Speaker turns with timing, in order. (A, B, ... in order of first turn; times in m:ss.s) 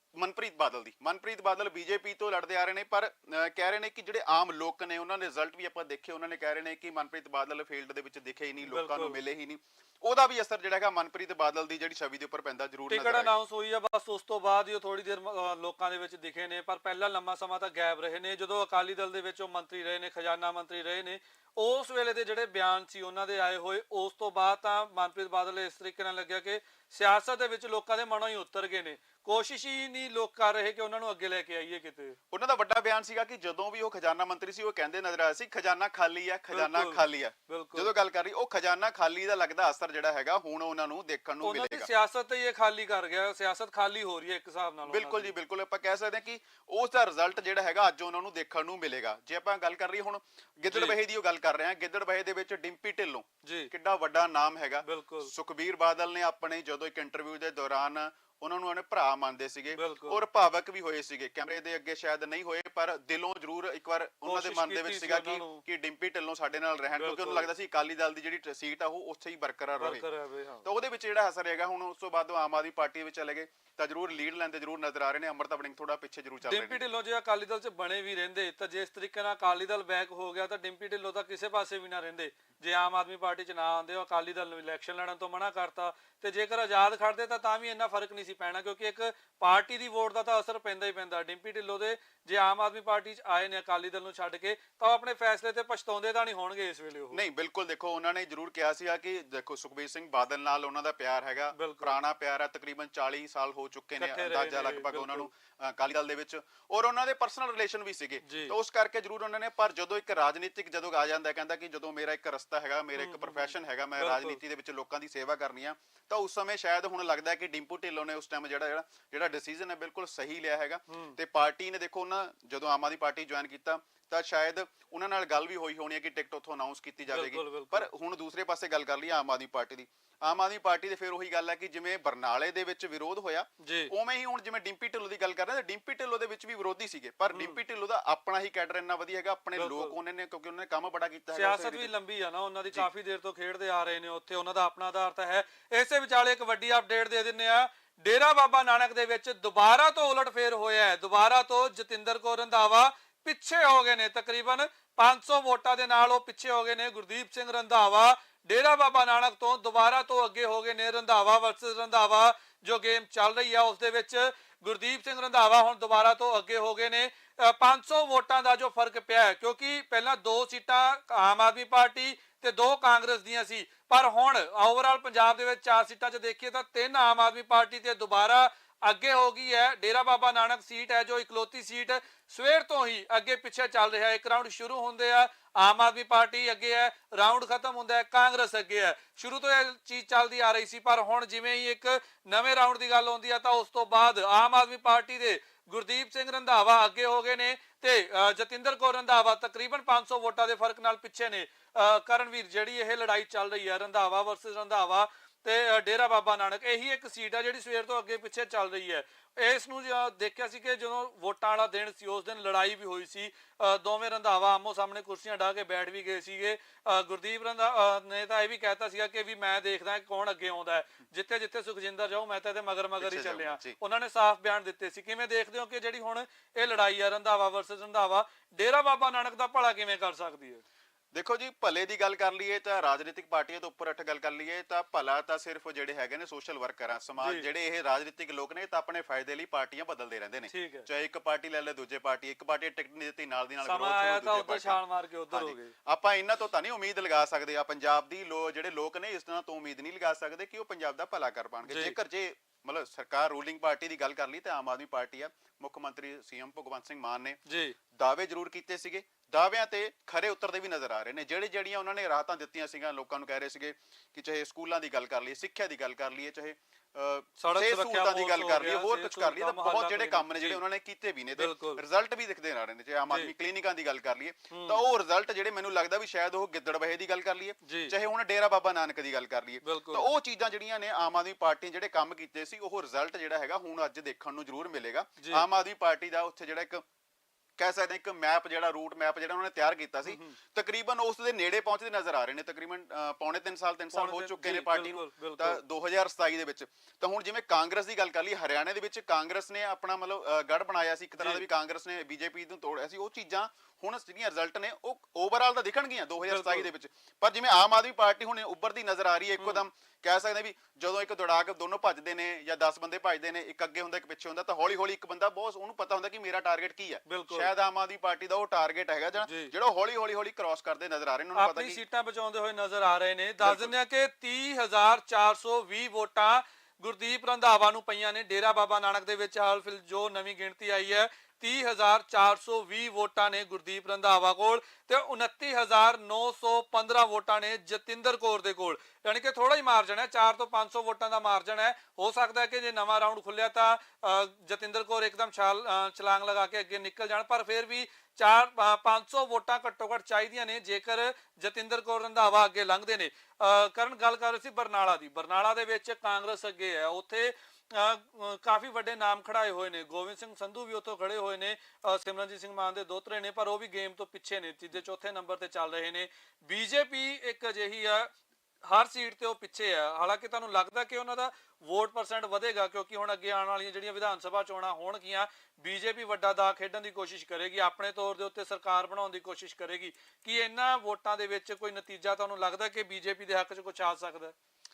0:00.2-0:13.3 A
0:08.6-0:09.2 B
0:12.9-0:32.2 B
0:32.3-0:41.9 A
0:36.5-0:37.9 B
0:41.4-0:45.3 B
0:44.8-1:10.0 A
0:50.7-0:51.0 B
0:53.4-0:53.7 B
0:54.8-0:55.3 B
0:59.7-1:00.2 B
1:04.2-1:05.6 B
1:07.0-1:07.5 B
1:09.7-1:10.6 B
1:10.6-1:16.8 A
1:16.4-1:37.2 B
1:37.1-2:21.9 A
1:41.5-1:42.0 B
1:44.0-1:45.3 B
1:48.2-1:48.5 B
1:53.0-1:54.4 B
2:00.9-2:01.2 B
2:07.1-2:07.9 B
2:13.6-2:13.9 B
2:17.3-2:17.6 B
2:19.5-2:20.0 B
2:21.3-3:50.6 B
3:43.0-3:43.8 A
3:51.1-4:17.4 A
3:57.2-3:57.5 B
4:00.5-4:00.9 B
4:03.6-4:05.7 B
4:11.6-4:12.0 B
4:17.4-4:17.8 B
4:17.9-4:46.8 A
4:27.4-4:30.6 B
4:31.4-4:31.8 B
4:34.5-4:34.8 B
4:37.6-4:37.9 B
4:39.6-4:40.1 B
4:45.2-4:45.4 B
4:47.6-5:21.8 A
4:50.0-4:50.4 B
4:53.9-4:55.6 B
5:01.2-5:01.4 B
5:06.2-5:06.7 B
5:17.1-5:17.5 B
5:19.2-5:19.5 B
5:21.3-6:08.1 B
5:23.4-5:23.7 A
6:08.7-6:24.3 B